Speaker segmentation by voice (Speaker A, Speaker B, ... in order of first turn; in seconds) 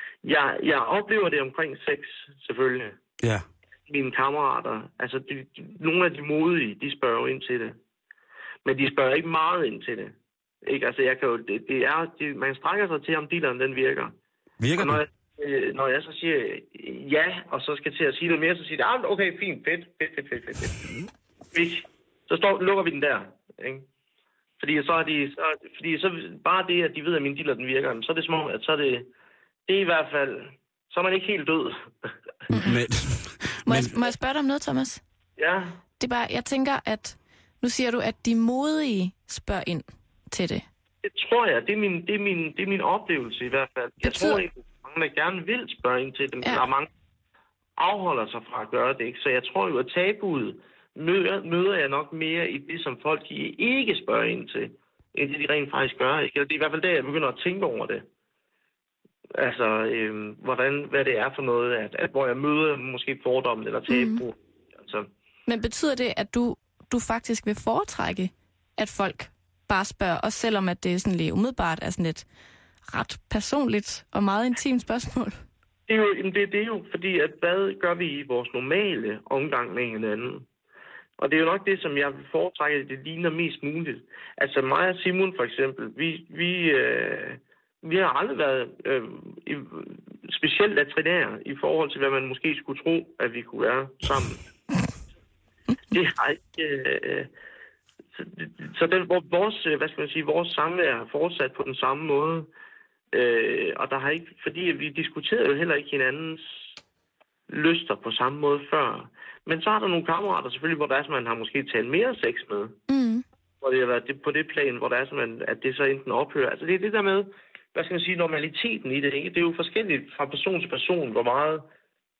Speaker A: 0.2-3.0, 3.9-7.8, 8.6-14.1, 14.8-20.8, 21.5-23.9, 24.6-29.1, 29.7-32.1, 35.4-35.8, 41.0-46.9, 47.8-58.0, 59.3-65.1, 75.9-80.5, 81.2-94.4, 95.9-97.3, 98.2-102.5, 103.1-106.6, 107.5-112.8, 113.6-121.7
Speaker B: 14.6-15.0, 32.5-34.0
Speaker C: 33.6-35.0, 36.0-40.6, 44.0-44.4, 63.9-64.2, 65.5-72.2, 72.9-75.4, 112.9-113.2